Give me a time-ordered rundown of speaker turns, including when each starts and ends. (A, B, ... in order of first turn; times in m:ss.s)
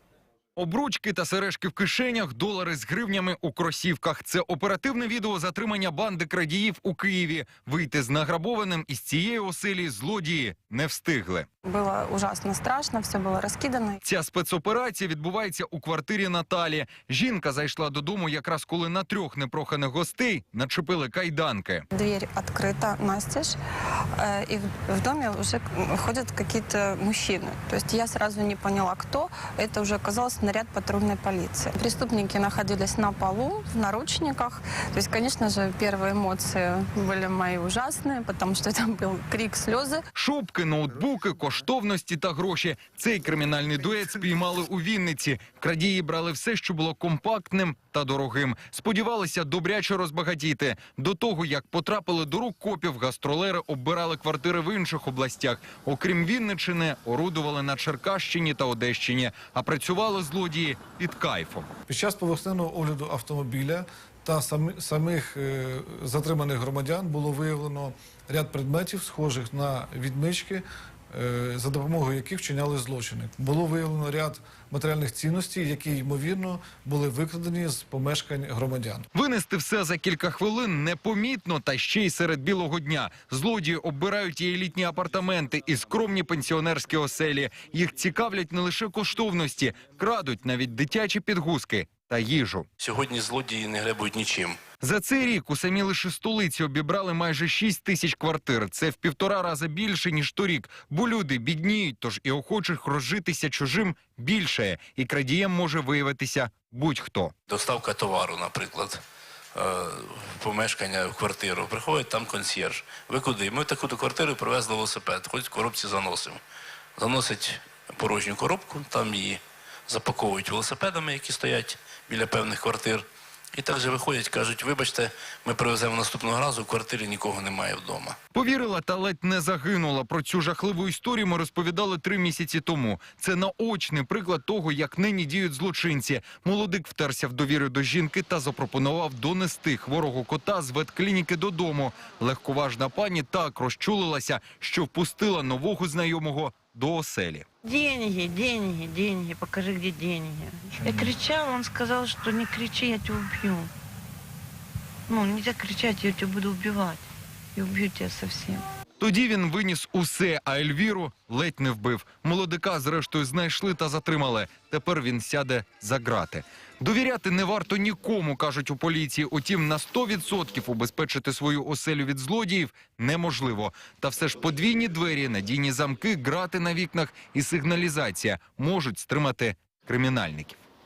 0:00.6-0:11.5 A
0:11.7-0:14.0 B
0:14.0-0:21.9 A
0:21.9-0:23.6 B
0:24.2-0:40.0 B
0:40.1-1:01.7 A
1:01.9-1:19.1 C
1:19.1-1:32.7 A
1:32.8-1:34.6 D
1:34.8-1:47.3 A
1:47.5-1:49.0 D
1:49.6-1:56.4 D
1:57.0-2:08.2 D
2:08.3-2:27.5 A
2:27.6-2:33.7 E
2:35.1-2:37.0 E
2:37.6-2:38.6 E
2:39.0-3:00.6 A